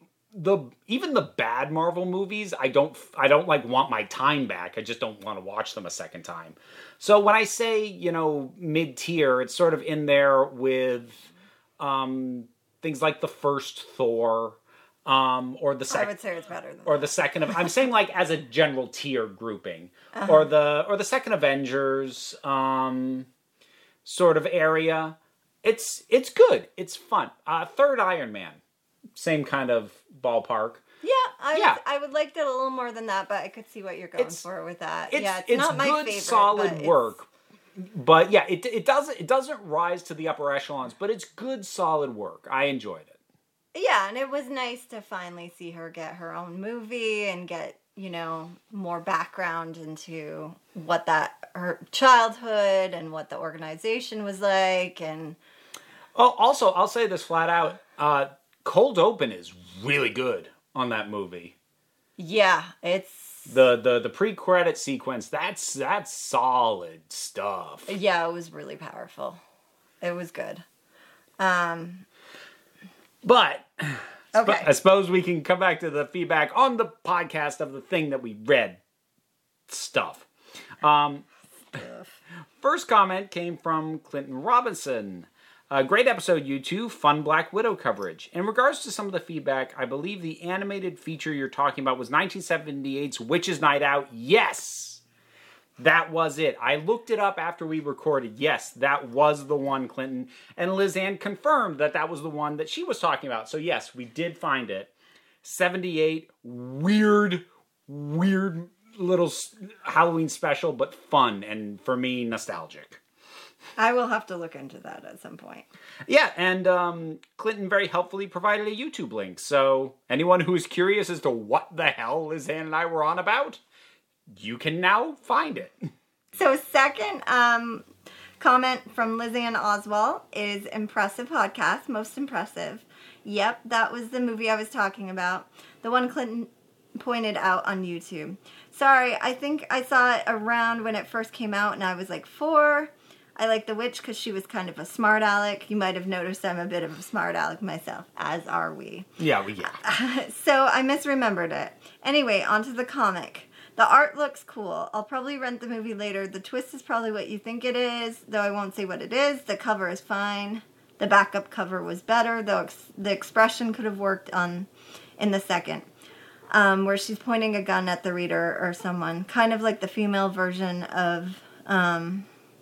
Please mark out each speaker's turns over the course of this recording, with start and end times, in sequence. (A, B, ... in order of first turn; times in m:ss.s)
0:00.3-0:11.2 A
0:11.8-0:16.2 A
0:15.9-0:17.1 B
0:16.9-0:23.3 A
0:20.1-0:20.5 B
0:24.0-0:28.6 A
0:29.2-0:30.8 A
0:31.0-0:37.1 B
0:31.5-0:31.8 A
0:34.2-0:34.4 A
0:35.1-0:43.2 A
0:43.7-0:55.4 B
0:56.2-1:01.6 A
1:02.2-1:03.5 B
1:03.5-1:07.9 A
1:07.9-1:09.4 B
1:10.0-1:10.6 B
1:11.4-1:12.1 B
1:13.2-1:18.8 A
1:14.3-1:14.7 B
1:19.7-1:20.3 A
1:20.8-1:21.8 A
1:21.7-1:22.1 B
1:22.6-1:35.0 A
1:35.8-1:44.9 A
1:45.4-1:53.0 A
1:53.8-1:55.7 B
1:56.1-2:03.6 A
2:04.3-2:05.8 A
2:06.4-2:07.9 B
2:08.4-2:29.1 B
2:29.2-2:29.8 A
2:29.6-2:45.9 B
2:46.5-2:52.3 B